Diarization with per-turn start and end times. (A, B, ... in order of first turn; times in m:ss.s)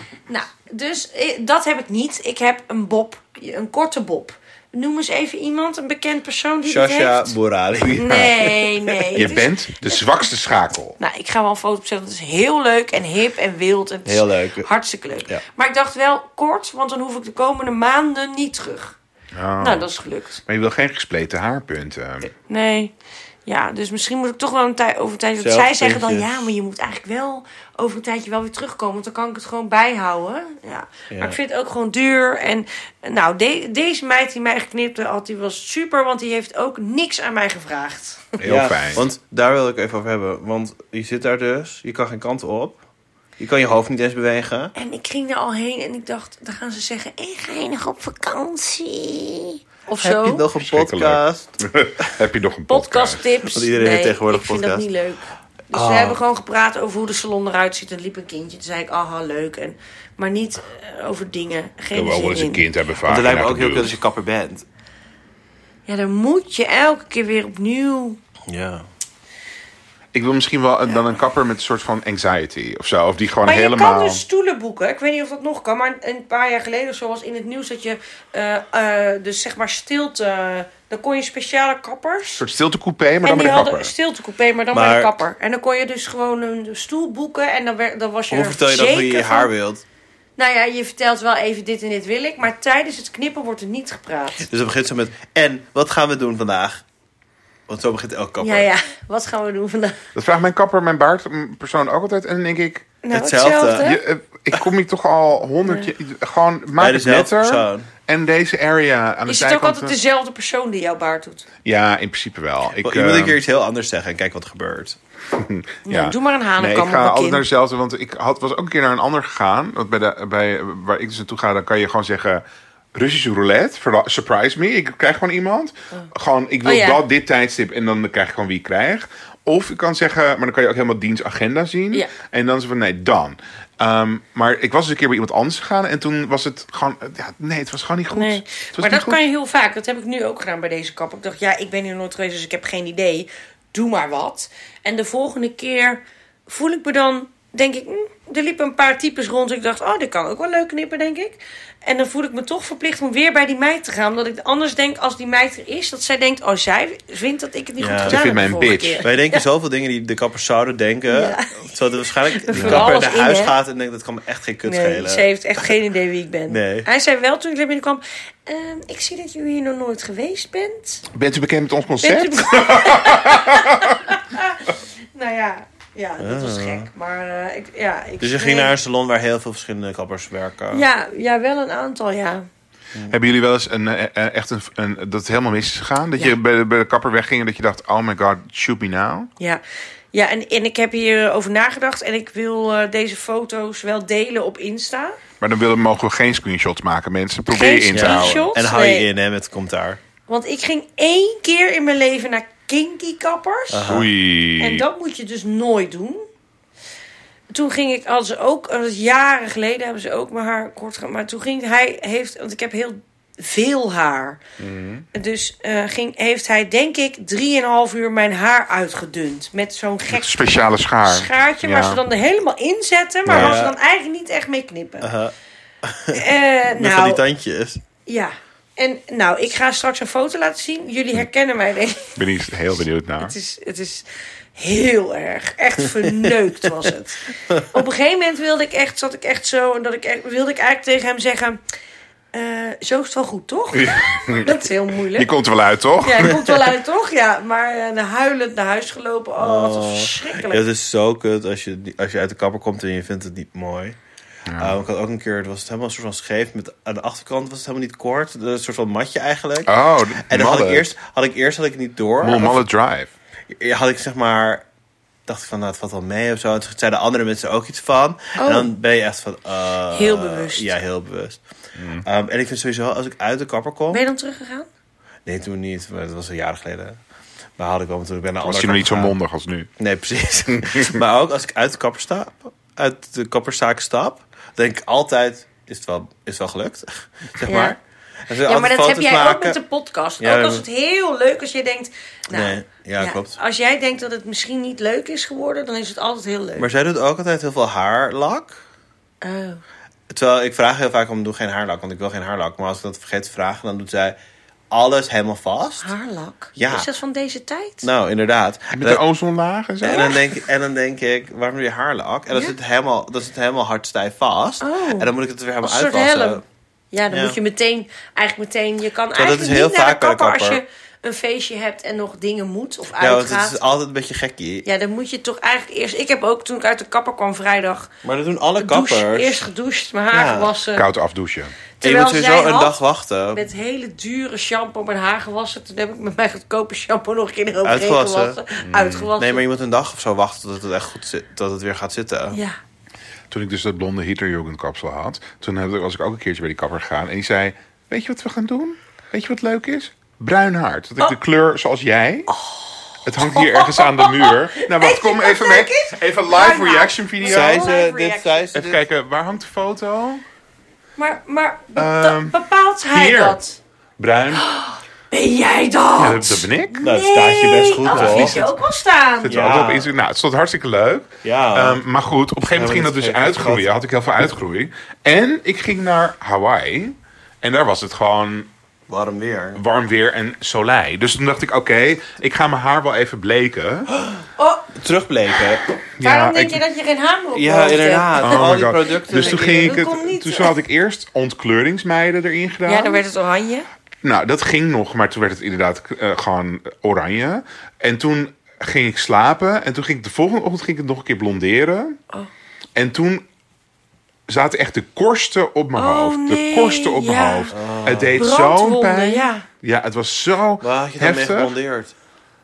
0:00.3-0:07.4 A
0:06.6-0:09.2 B
0:07.8-0:08.3 C
0:07.9-0:09.9 A
0:09.1-0:11.0 C
0:11.0-0:18.9 A
0:14.0-0:14.7 B
0:19.3-0:19.9 C
0:19.6-0:20.4 A
0:20.5-0:22.3 C
0:22.5-0:22.9 A
0:23.4-0:38.4 A
0:25.4-0:26.5 B
0:31.1-0:31.4 B
0:38.4-0:39.0 C
0:38.4-0:42.8 B
0:43.4-0:44.7 B
0:44.8-0:50.4 A
0:50.0-0:51.6 B
0:50.6-0:53.2 C
0:52.7-1:02.6 A
0:53.4-0:54.8 B
0:55.7-0:56.2 B
1:01.9-1:03.9 C
1:03.0-1:04.6 B
1:05.9-1:08.2 A
1:08.5-1:08.9 B
1:10.1-1:14.2 C
1:13.4-1:22.4 A
1:22.4-1:23.9 C
1:23.2-1:29.5 A
1:24.7-1:25.2 B
1:28.3-1:29.8 B
1:30.4-1:34.5 A
1:34.4-1:36.8 B
1:37.7-1:38.7 B
1:38.4-1:40.0 A
1:40.1-1:42.8 C
1:43.0-1:44.0 A
1:43.1-1:43.9 B
1:43.8-1:50.0 C
1:45.6-1:45.9 A
1:46.8-1:47.9 B
1:49.3-1:51.4 A
1:51.6-1:53.4 C
1:52.8-1:55.0 B
1:55.3-2:02.4 C
1:55.9-1:57.4 A
2:02.9-2:19.2 C
2:06.6-2:07.0 A
2:18.1-2:39.4 A
2:37.8-2:38.2 B
2:38.0-2:39.0 C
2:39.0-2:45.7 B
2:41.1-2:43.6 A
2:42.5-2:42.9 C
2:44.6-2:51.0 A
2:46.5-2:46.9 B
2:51.1-2:54.0 C
2:52.0-2:58.7 A
2:56.2-2:56.9 B
2:58.2-3:00.8 B
3:00.7-3:02.5 A
3:03.1-3:09.3 C
3:10.1-3:15.2 A
3:15.4-3:18.4 C
3:17.5-3:19.1 A
3:17.9-3:20.0 B
3:20.3-3:23.9 A
3:23.7-3:24.1 B
3:23.8-3:24.8 C
3:24.6-3:26.2 A
3:27.5-3:34.4 A
3:34.6-3:35.0 C
3:35.1-3:40.4 A
3:40.1-3:42.0 C
3:41.0-3:45.1 A
3:43.3-3:43.6 C
3:43.3-3:43.7 B
3:45.0-3:47.8 B
3:46.1-3:47.2 A
3:48.0-3:52.2 A
3:52.2-3:53.3 C
3:53.2-3:54.0 A
3:54.6-4:01.6 A
4:02.3-4:05.3 A
4:03.7-4:04.6 C
4:05.1-4:06.5 C
4:06.0-4:10.6 A
4:09.4-4:14.0 B
4:14.4-4:14.8 C
4:14.5-4:22.6 B
4:19.7-4:20.9 C
4:22.2-4:23.1 C
4:23.6-4:24.6 B
4:25.3-4:31.4 B
4:28.4-4:28.7 A
4:29.9-4:30.7 A
4:31.8-4:32.0 C
4:32.0-4:34.0 B
4:33.9-4:34.7 A
4:35.2-4:37.0 B
4:37.6-4:39.1 B
4:38.4-4:39.7 C
4:39.8-4:47.8 B
4:40.5-4:41.0 C
4:47.4-4:47.8 A
4:48.3-4:49.6 B
4:48.4-4:56.7 A
4:50.2-4:50.6 B
4:52.3-4:53.3 B
4:56.6-4:58.6 B
4:59.2-4:59.6 A
5:00.1-5:04.2 B
5:04.7-5:05.9 B
5:05.8-5:07.9 A
5:06.6-5:06.9 B
5:07.8-5:09.0 B
5:08.7-5:10.1 C
5:09.8-5:16.4 B
5:09.8-5:10.3 A
5:12.3-5:12.6 A
5:14.6-5:23.6 A
5:17.1-5:17.4 B
5:19.1-5:20.6 B
5:23.0-5:24.6 B
5:24.6-5:27.9 A
5:28.0-5:29.4 B
5:28.6-5:30.9 A
5:30.1-5:30.5 B
5:30.7-5:31.5 C
5:31.8-5:32.8 A
5:31.8-5:33.4 B
5:33.3-5:39.4 A
5:37.6-5:38.4 B
5:38.6-5:39.1 C
5:39.2-5:42.4 B
5:43.3-5:52.3 C
5:52.3-5:58.6 A
5:53.0-5:57.7 C
5:57.2-5:58.8 B
5:58.5-6:00.2 C
6:01.0-6:03.6 A
6:01.7-6:02.4 C
6:02.9-6:03.4 C
6:04.0-6:04.4 C
6:04.3-6:09.4 A
6:06.0-6:06.8 C
6:06.8-6:08.4 B
6:07.9-6:08.6 C
6:09.2-6:18.5 C
6:09.3-6:09.9 B
6:11.2-6:11.8 B
6:12.4-6:13.7 B
6:18.9-6:19.6 B
6:19.5-6:23.9 C
6:23.9-6:25.6 B
6:24.4-6:24.7 A
6:26.0-6:26.6 C
6:26.0-6:30.6 A
6:27.3-6:29.8 B
6:28.2-6:33.0 C
6:32.7-6:33.7 A
6:34.0-6:42.0 C
6:42.8-6:43.2 C
6:44.3-6:51.6 C
6:45.8-6:47.5 A
6:47.5-6:48.2 B
6:48.2-6:49.4 A
6:50.6-6:51.9 B